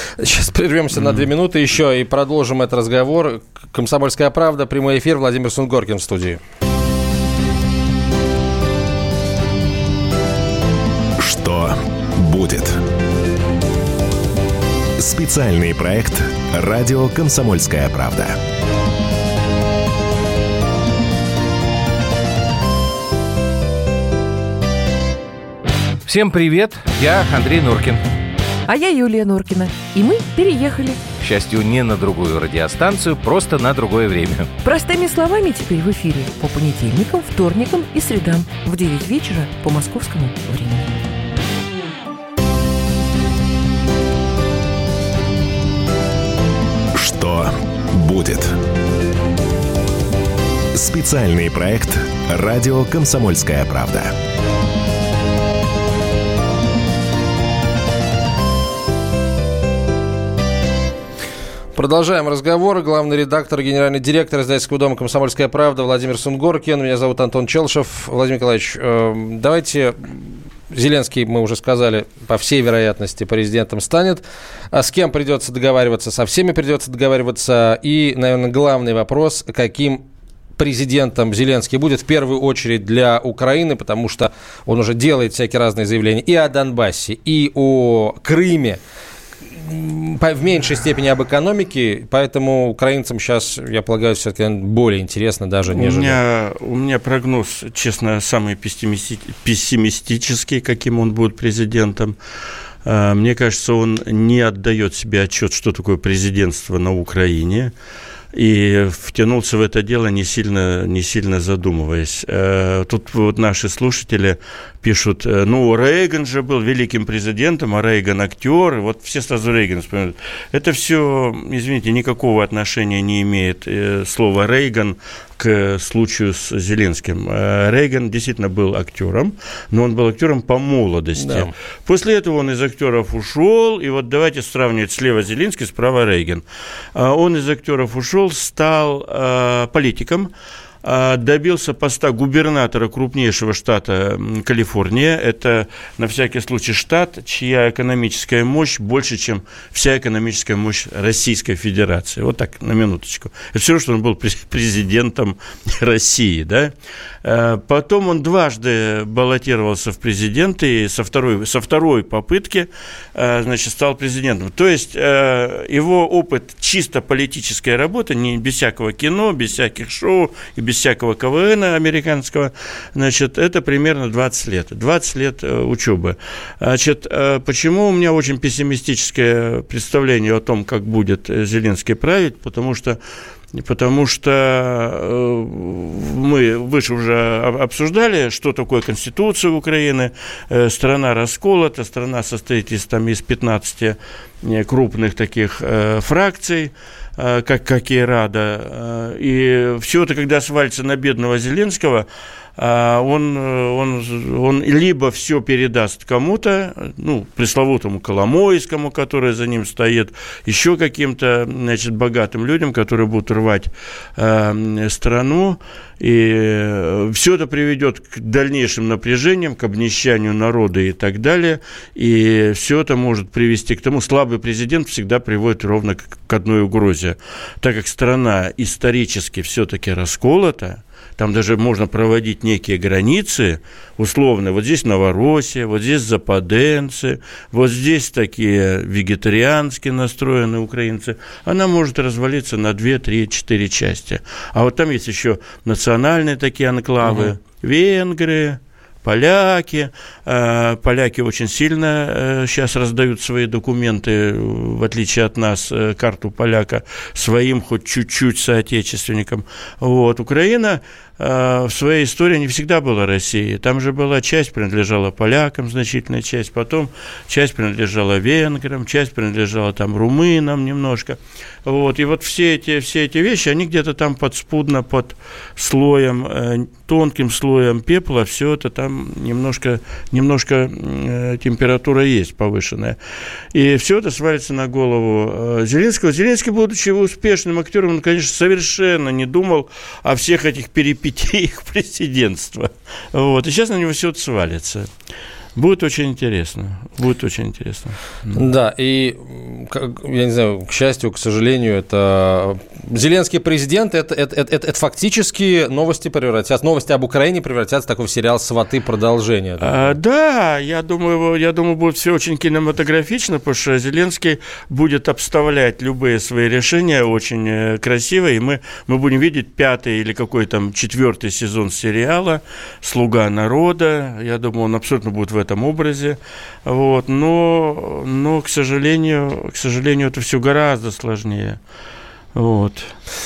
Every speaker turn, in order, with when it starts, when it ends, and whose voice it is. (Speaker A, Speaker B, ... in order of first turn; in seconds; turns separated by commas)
Speaker A: 0.2-6.4, Speaker B: 11.2-12.8, Speaker B: 15.0-18.4, Speaker C: 26.1-28.0, Speaker D: 28.7-31.0, Speaker C: 31.2-34.5, Speaker D: 34.6-41.0, Speaker B: 46.9-48.6, Speaker B: 50.7-54.1, Speaker A: 61.8-70.2, Speaker A: 70.7-80.0, Speaker A: 80.6-88.8, Speaker A: 89.6-96.2, Speaker E: 95.7-102.2, Speaker E: 102.8-107.7, Speaker E: 108.3-136.4, Speaker A: 131.2-131.5, Speaker E: 136.9-140.3, Speaker E: 140.8-156.7, Speaker E: 157.2-183.0, Speaker E: 183.5-202.1, Speaker E: 202.6-283.0, Speaker A: 247.1-247.3, Speaker E: 283.5-294.9, Speaker E: 295.6-298.3, Speaker A: 298.3-309.9, Speaker E: 309.6-331.6, Speaker E: 332.4-332.9